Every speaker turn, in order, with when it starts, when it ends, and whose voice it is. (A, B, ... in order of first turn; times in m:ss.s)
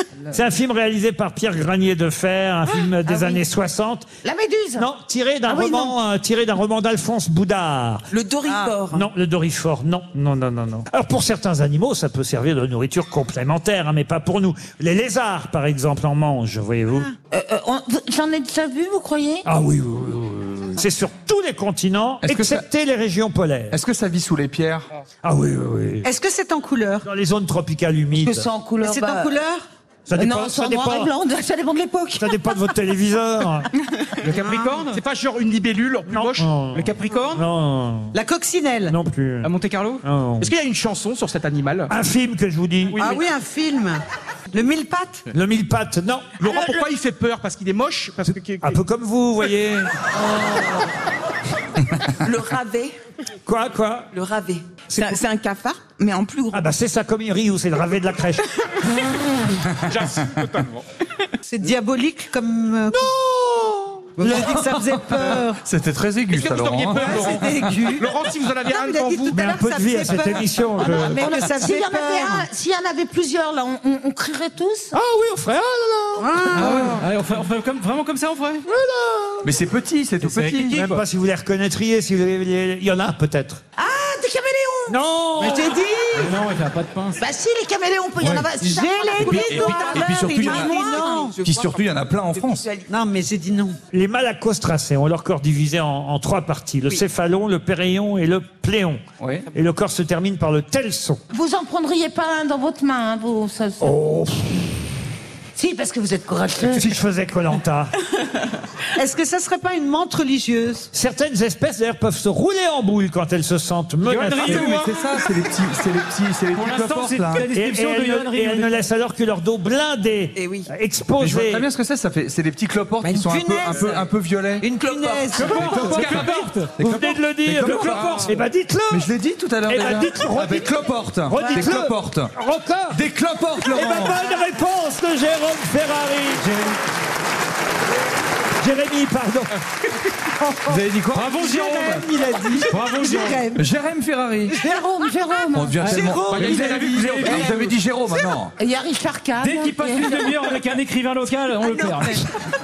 0:00.3-0:04.1 A
0:04.2-0:04.9 B
0:04.8-0:08.1 A
0:05.5-0:05.9 C
0:08.1-0:09.1 D
0:08.4-0:08.8 C
0:08.9-0:17.1 A
0:17.3-0:19.4 B
0:19.4-0:23.8 A
0:22.2-0:22.6 E
0:23.7-0:24.9 E
0:25.2-0:26.1 A
0:26.0-0:27.1 C
0:27.0-0:28.5 A
0:28.1-0:29.3 B
0:28.8-0:29.6 C
0:30.1-0:31.1 A
0:30.2-0:32.3 B
0:32.2-0:33.7 A
0:34.2-0:34.9 F
0:34.2-0:36.5 G
0:34.4-0:34.7 C
0:36.1-0:38.2 A
0:36.7-0:37.4 F
0:38.1-0:38.9 C
0:38.9-0:39.5 A
0:39.4-0:40.0 F
0:40.0-0:40.5 A
0:40.4-0:41.9 G
0:41.9-0:43.0 A
0:42.9-0:43.2 G
0:43.0-0:45.3 C
0:45.3-0:46.4 A
0:46.4-0:48.8 G
0:48.6-0:49.9 A
0:50.3-0:50.7 D
0:52.2-0:52.9 D
0:53.4-0:54.1 A
0:54.1-0:56.6 D
0:54.9-0:55.2 A
0:56.5-0:59.0 A
0:59.9-1:00.8 G
1:01.4-1:05.6 C
1:04.2-1:04.7 A
1:04.3-1:04.5 E
1:05.2-1:07.4 E
1:06.3-1:09.4 G
1:07.0-1:12.4 C
1:09.3-1:11.3 A
1:10.8-1:14.9 B
1:14.9-1:17.0 A
1:16.2-1:17.0 C
1:16.5-1:18.6 F
1:18.7-1:19.4 A
1:19.4-1:20.9 E
1:20.2-1:21.0 F
1:20.6-1:23.6 A
1:23.8-1:24.9 B
1:24.9-1:25.7 A
1:25.4-1:26.4 C
1:26.1-1:27.2 F
1:27.2-1:31.4 B
1:28.2-1:28.5 E
1:28.6-1:31.4 C
1:29.2-1:32.7 E
1:31.2-1:32.9 D
1:32.9-1:33.8 C
1:33.9-1:41.2 A
1:39.2-1:39.4 E
1:41.3-1:43.9 B
1:43.8-1:44.6 A
1:45.6-1:46.9 B
1:46.6-1:47.9 A
1:49.0-1:50.9 C
1:50.9-1:54.7 A
1:54.0-1:55.1 F
1:54.4-1:57.5 E
1:56.5-1:58.8 F
1:57.5-2:01.7 A
2:00.4-2:00.7 D
2:01.2-2:04.8 E
2:03.0-2:04.1 C
2:04.6-2:06.2 C
2:04.8-2:05.4 D
2:05.3-2:06.8 F
2:05.4-2:08.4 E
2:05.4-2:06.4 G
2:06.8-2:09.1 A
2:07.7-2:08.2 F
2:08.9-2:12.3 E
2:09.7-2:13.0 A
2:11.4-2:11.7 C
2:12.9-2:14.2 E
2:13.6-2:16.4 A
2:16.4-2:16.8 F
2:18.6-2:19.6 A
2:20.4-2:20.8 C
2:20.7-2:21.9 E
2:21.1-2:23.5 F
2:21.3-2:23.6 C
2:23.5-2:24.6 E
2:24.5-2:26.0 B
2:25.5-2:28.5 E
2:25.8-2:27.7 F
2:25.9-2:27.7 C
2:26.2-2:27.5 G
2:28.6-2:30.3 B
2:29.4-2:32.3 F